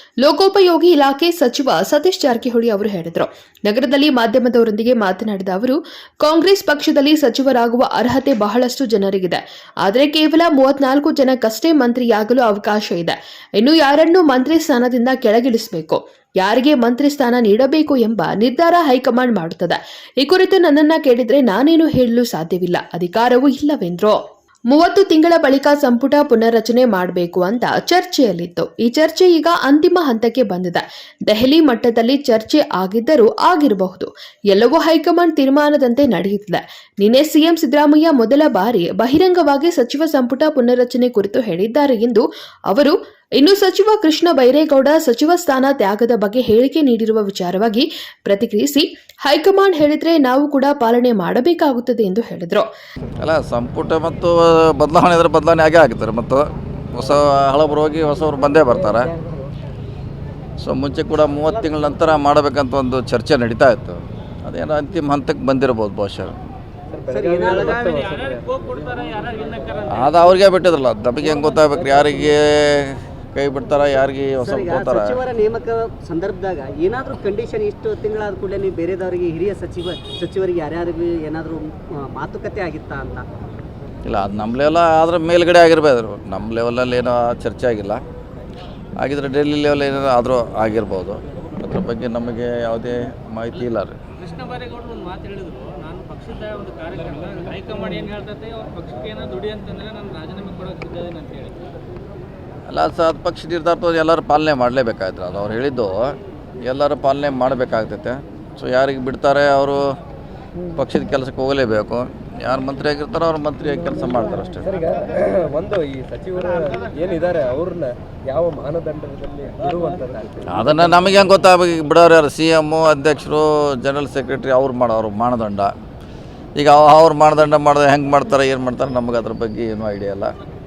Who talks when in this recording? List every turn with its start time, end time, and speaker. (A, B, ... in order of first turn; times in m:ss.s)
0:00.2-0:24.2 A
0:24.7-0:52.7 A
0:53.2-0:59.1 B
1:00.6-1:06.4 B
1:06.9-1:08.5 C
1:07.1-1:08.0 D
1:07.5-1:10.3 E
1:09.9-1:15.2 B
1:14.4-1:23.3 D
1:24.0-1:28.0 B
1:29.0-1:34.0 B
1:34.2-1:41.5 E
1:42.7-1:49.8 B
1:50.8-1:54.7 B
1:54.6-2:01.0 C
2:00.5-2:05.7 B
2:06.6-2:10.3 B